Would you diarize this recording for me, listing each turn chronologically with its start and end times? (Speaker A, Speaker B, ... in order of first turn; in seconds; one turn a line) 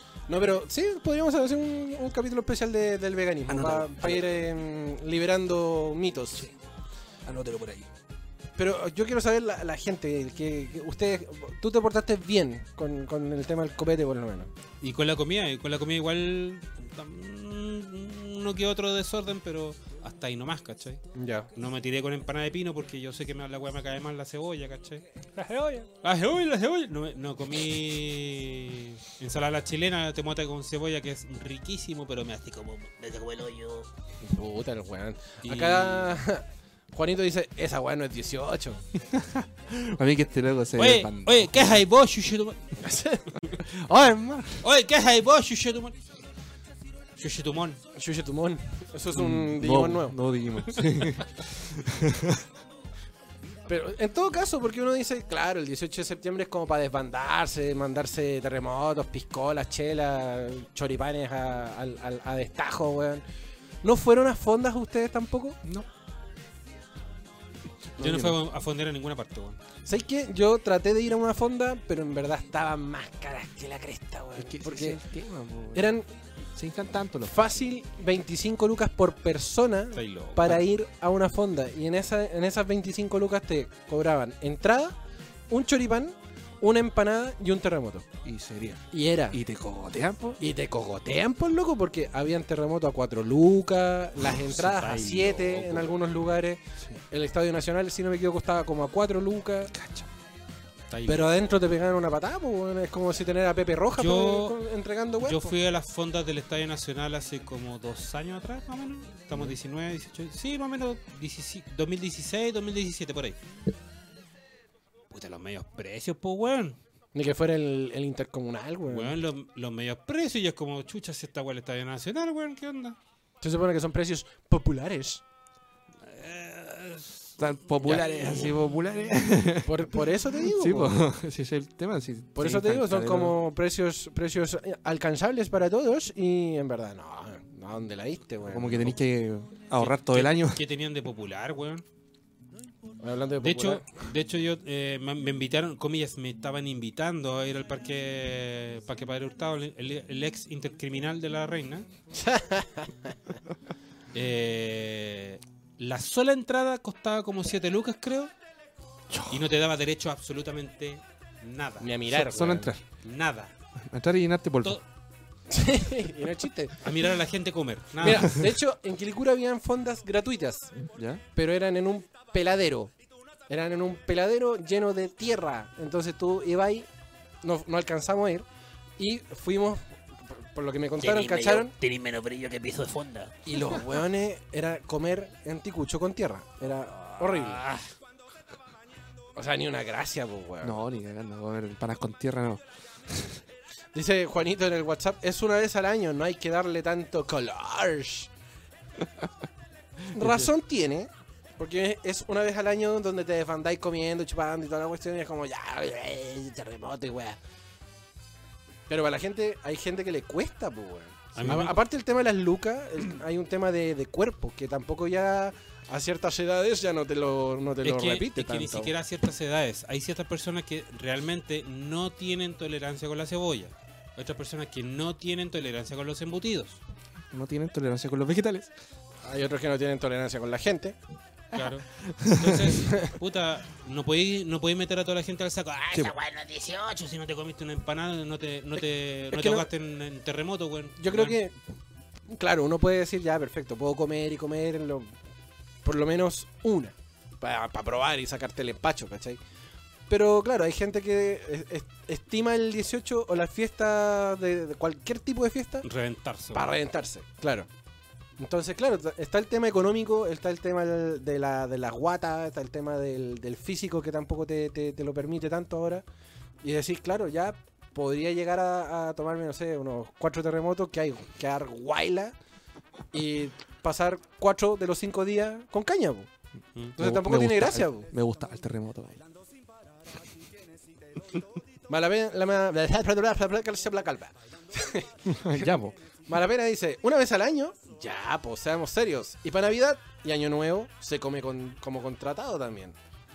Speaker A: 0.3-6.5
Speaker B: 3.5-4.3
Speaker B: 7.2-7.9
Speaker A: 8.6-14.5
Speaker C: 14.8-21.0
Speaker A: 21.1-21.5
Speaker C: 21.5-25.0
Speaker A: 25.4-25.9
Speaker C: 26.0-33.9
Speaker A: 34.2-38.8
Speaker C: 35.4-36.2
Speaker B: 39.1-41.8
Speaker C: 40.8-42.7
Speaker A: 42.8-43.3
Speaker B: 43.6-44.6
Speaker C: 44.6-46.0
Speaker C: 47.2-47.8
Speaker A: 47.9-50.2
Speaker B: 49.1-52.4
Speaker A: 53.7-63.2
Speaker A: 63.8-65.6
Speaker B: 68.0-68.4
Speaker C: 68.0-69.6
Speaker A: 69.8-75.0
Speaker B: 74.4-76.0
Speaker A: 75.7-76.1
Speaker B: 76.5-77.5
Speaker A: 77.3-85.0
Speaker C: 79.9-80.6
Speaker A: 85.5-88.1
Speaker B: 88.2-90.4
Speaker A: 88.9-89.4
Speaker A: 90.4-99.7
Speaker C: 94.3-95.9
Speaker B: 99.7-100.1
Speaker C: 100.9-101.5
Speaker A: 101.1-105.5
Speaker C: 104.0-104.6
Speaker C: 105.2-113.4
Speaker C: 115.1-116.8
Speaker A: 117.1-119.2
Speaker C: 118.9-123.0
Speaker A: 123.4-125.2
Speaker C: 126.0-127.3
Speaker B: 127.4-133.4
Speaker A: 127.8-128.5
Speaker C: 127.9-128.5
Speaker A: 129.6-131.0
Speaker A: 132.3-139.0
Speaker B: 138.4-140.6
Speaker C: 139.7-141.8
Speaker A: 143.0-143.9
Speaker C: 143.4-151.9
Speaker A: 152.1-153.1
Speaker C: 154.1-158.3
Speaker B: 159.1-159.4
Speaker C: 159.3-161.9
Speaker A: 161.8-162.7
Speaker B: 162.1-162.8
Speaker C: 163.0-163.5
Speaker B: 163.8-164.8
Speaker A: 165.5-166.8
Speaker C: 166.8-168.4
Speaker A: 168.0-170.7
Speaker B: 170.9-171.2
Speaker A: 171.3-172.9
Speaker A: 173.5-176.9
Speaker A: 177.4-178.4
Speaker A: 179.0-181.7
Speaker D: 181.0-183.3
Speaker A: 183.4-187.7
Speaker C: 187.0-187.9
Speaker A: 189.3-190.8
Speaker B: 190.6-193.4
Speaker A: 193.9-198.3
Speaker A: 200.1-207.4
Speaker B: 200.1-200.5
Speaker A: 208.9-218.9
Speaker C: 211.3-211.8
Speaker C: 217.8-226.8
Speaker B: 227.3-228.7
Speaker A: 229.2-230.9
Speaker C: 231.5-241.4
Speaker B: 231.6-232.7
Speaker A: 232.8-233.1
Speaker A: 239.3-239.7
Speaker A: 241.0-241.5
Speaker A: 242.3-245.1
Speaker A: 245.8-249.4
Speaker A: 250.1-255.8
Speaker C: 255.8-256.6
Speaker A: 256.5-257.7
Speaker A: 258.4-266.0
Speaker A: 266.6-272.3
Speaker A: 273.1-276.3
Speaker A: 276.9-278.1
Speaker B: 277.0-279.2
Speaker A: 281.9-285.7
Speaker B: 285.3-285.9
Speaker A: 286.3-292.9